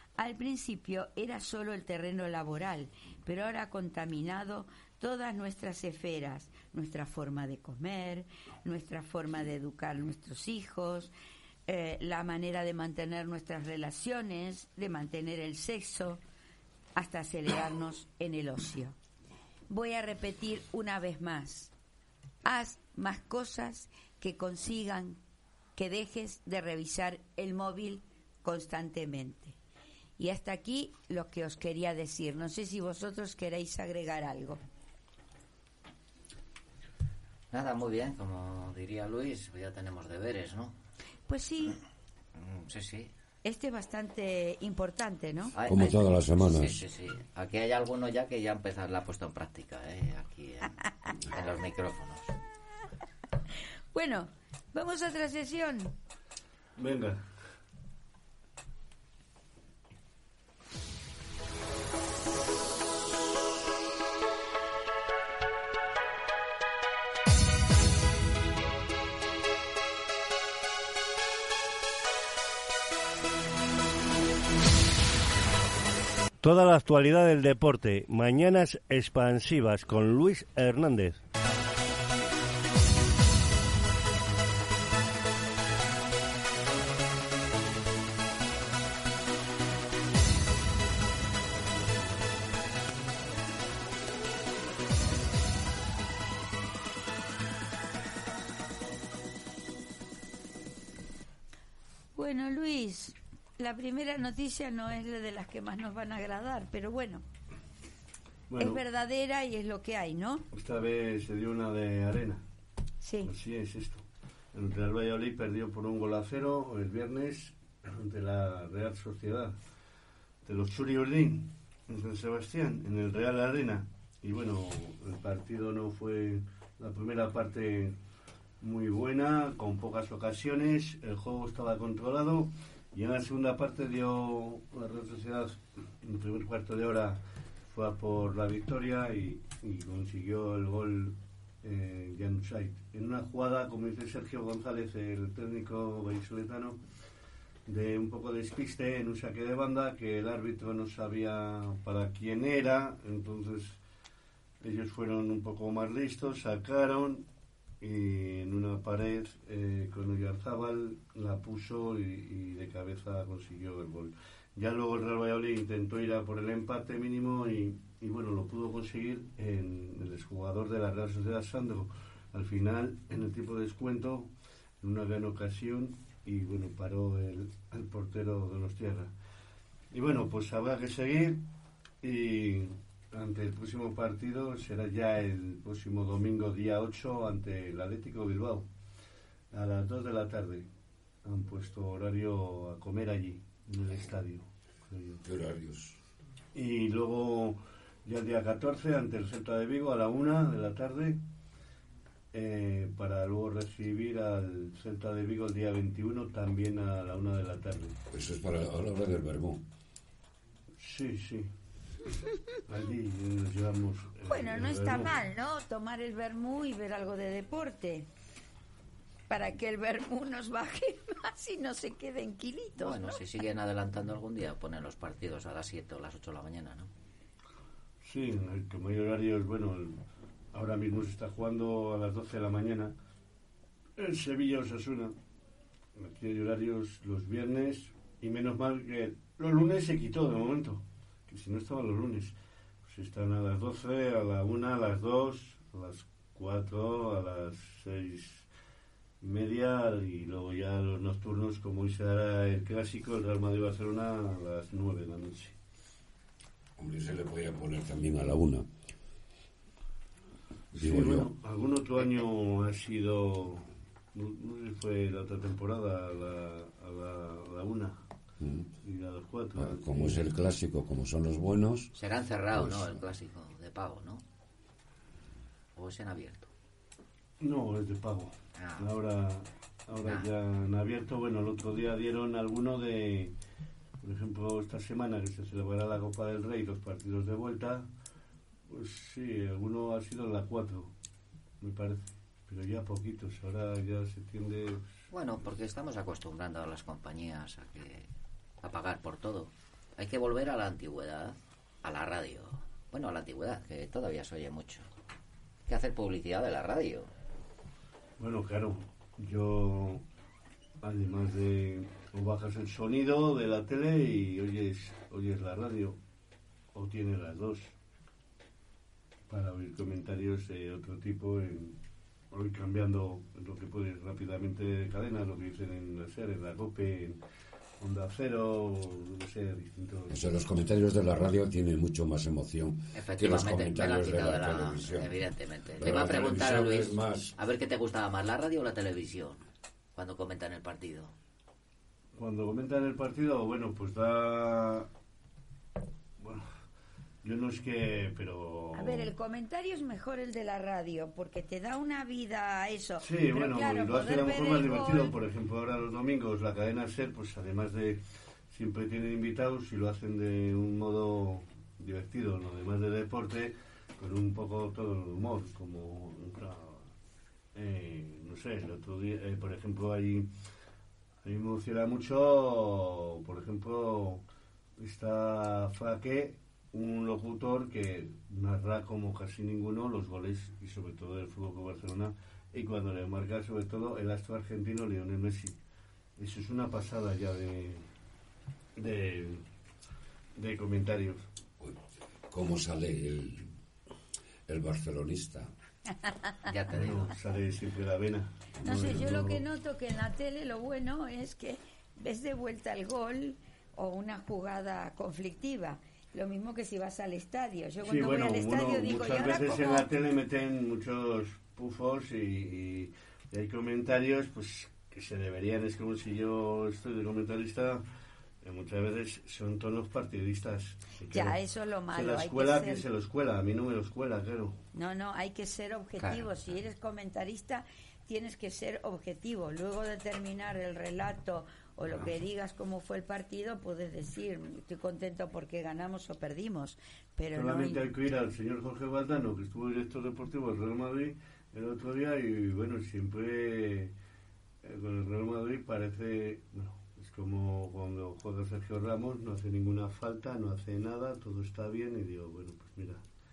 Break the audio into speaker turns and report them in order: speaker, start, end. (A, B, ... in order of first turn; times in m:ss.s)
0:00.2-0:11.1 A
0:11.7-0:16.2 A
0:17.0-0:19.0 A
0:19.7-0:21.7 A
0:22.4-0:25.2 A
0:25.8-0:29.6 A
0:30.2-0:34.6 A
0:37.5-0:40.8 B
0:41.3-0:41.8 A
0:42.4-0:43.1 B
0:43.4-0:45.5 A
0:45.6-0:50.8 B
0:45.6-0:46.8 C
0:51.3-0:52.3 B
0:53.9-0:56.0 A
0:56.8-0:57.3 D
1:42.2-1:47.2 A
1:48.5-1:48.8 D
1:48.6-1:50.5 A
1:50.5-1:52.4 D
1:53.0-1:53.3 A
1:53.2-1:59.6 D
2:00.4-2:08.0 D
2:08.6-2:26.8 D
2:27.7-2:33.8 D
2:34.6-2:37.3 D
2:37.8-2:59.1 D
2:59.9-3:01.4 D
3:02.0-3:08.7 D
3:09.5-3:10.7 D
3:11.2-3:15.2 D
3:15.2-3:16.0 C
3:16.5-3:21.2 D
3:22.3-3:28.0 D
3:28.1-3:29.6 C
3:30.8-3:31.5 D
3:32.7-3:35.2 D
3:34.3-3:38.1 A
3:39.3-3:43.2 A
3:42.8-3:46.9 B
3:48.0-3:50.0 D
3:50.5-3:53.0 D
3:54.0-3:55.2 D
3:56.0-4:08.5 D
4:09.2-4:15.6 D
4:16.8-4:18.7 C
4:20.8-4:21.3 C
4:20.8-4:28.0 D
4:28.4-4:28.7 C
4:28.8-4:30.3 D
4:29.6-4:31.9 C
4:32.0-4:34.2 B
4:32.5-4:33.0 C
4:35.8-4:36.5 B
4:37.4-4:43.3 D
4:38.6-4:38.9 B
4:40.0-4:40.3 B
4:44.0-4:47.9 D
4:48.7-4:50.9 D
4:51.6-4:54.9 D
4:55.1-4:58.1 B
4:58.6-5:04.8 B
5:05.7-5:07.1 B
5:08.2-5:10.0 D
5:10.8-5:16.0 D
5:16.7-5:17.7 D
5:19.3-5:21.8 D
5:22.3-5:27.2 D
5:27.8-5:30.3 D
5:30.1-5:35.2 C
5:33.0-5:39.4 B
5:35.8-5:37.3 C
5:40.0-5:41.1 B
5:42.2-5:44.9 D
5:46.2-5:46.5 D
5:47.2-5:49.1 D
5:48.8-5:55.2 A
5:53.0-5:58.0 D
5:58.5-6:06.9 D
6:07.6-6:10.3 D
6:11.2-6:14.2 D
6:14.8-6:25.6 D
6:26.2-6:27.9 D
6:28.8-6:29.4 D
6:30.4-6:31.2 D
6:31.6-6:33.5 C
6:34.5-6:35.5 C
6:36.5-6:37.2 B
6:36.7-6:39.4 D
6:38.6-6:49.9 A
6:38.6-6:39.3 C
6:47.8-6:57.8 D
6:58.4-7:01.4 D
7:01.1-7:02.8 A
7:01.9-7:04.6 D
7:04.7-7:17.8 A
7:06.0-7:06.3 B
7:17.3-7:23.9 D
7:24.6-7:33.0 D